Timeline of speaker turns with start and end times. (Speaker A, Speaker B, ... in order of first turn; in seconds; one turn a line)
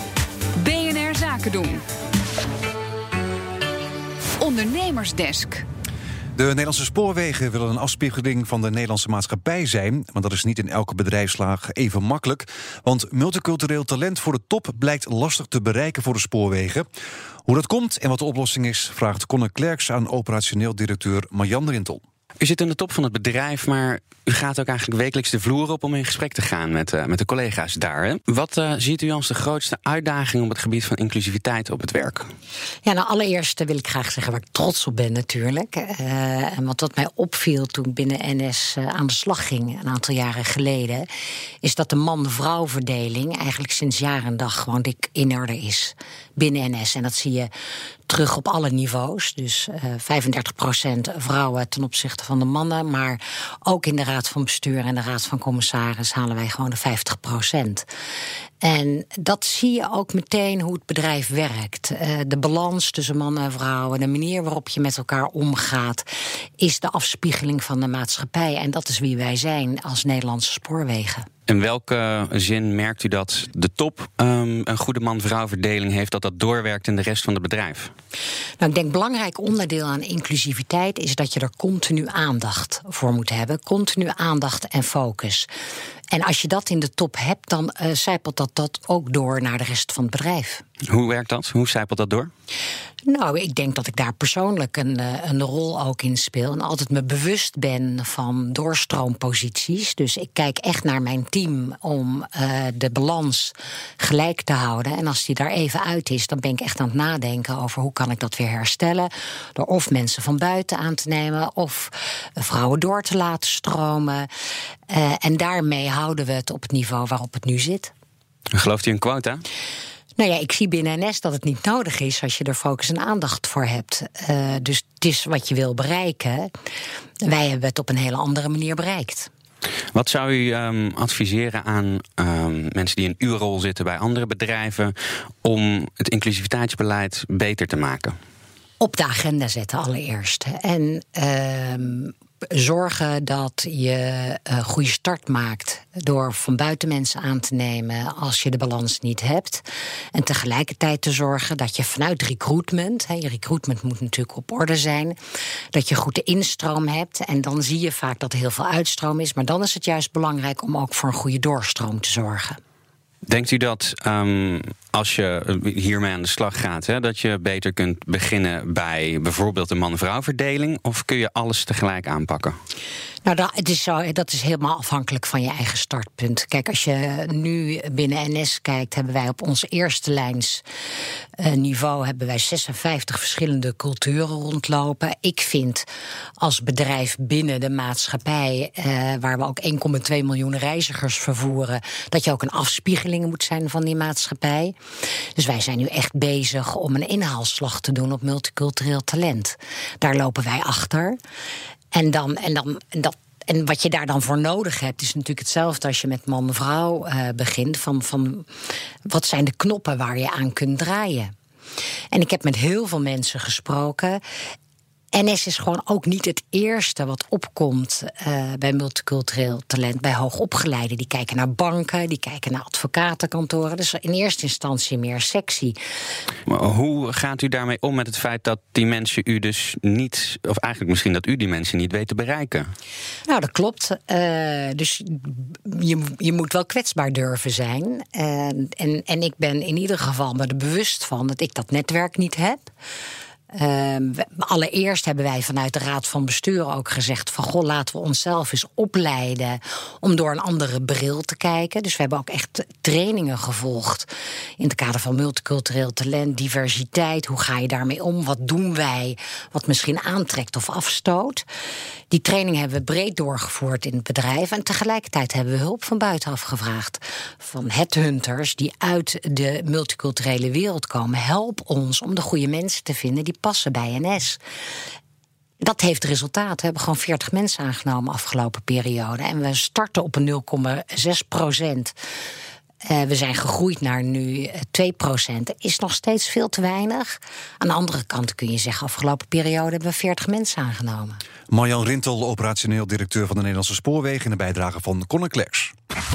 Speaker A: 0.6-1.8
Speaker A: 4.4-5.6
Speaker B: 6.4-16.9
Speaker B: 17.5-22.0
Speaker C: 22.4-32.3
Speaker D: 32.8-41.1
Speaker D: 41.6-47.5
Speaker D: 48.1-57.9
Speaker D: 58.6-66.0
Speaker D: 66.6-71.3
Speaker C: 71.5-77.9
Speaker D: 78.6-85.5
Speaker D: 86.1-90.6
Speaker C: 90.9-92.3
Speaker D: 93.0-114.3
Speaker D: 114.9-117.9
Speaker C: 118.5-119.4
Speaker D: 120.2-126.5
Speaker D: 127.2-129.3
Speaker C: 129.9-138.2
Speaker D: 138.8-155.2
Speaker D: 155.7-162.6
Speaker C: 163.3-172.6
Speaker D: 173.2-180.6
Speaker D: 181.4-185.8
Speaker D: 186.4-194.7
Speaker D: 195.3-201.2
Speaker D: 201.9-208.5
Speaker D: 209.1-211.3
Speaker D: 212.1-214.2
Speaker D: 215.1-225.8
Speaker C: 226.5-232.7
Speaker D: 233.3-242.7
Speaker D: 243.5-254.1
Speaker D: 254.6-261.4
Speaker D: 262.1-274.4
Speaker D: 275.6-281.9
Speaker D: 282.9-291.2
Speaker B: 291.5-295.7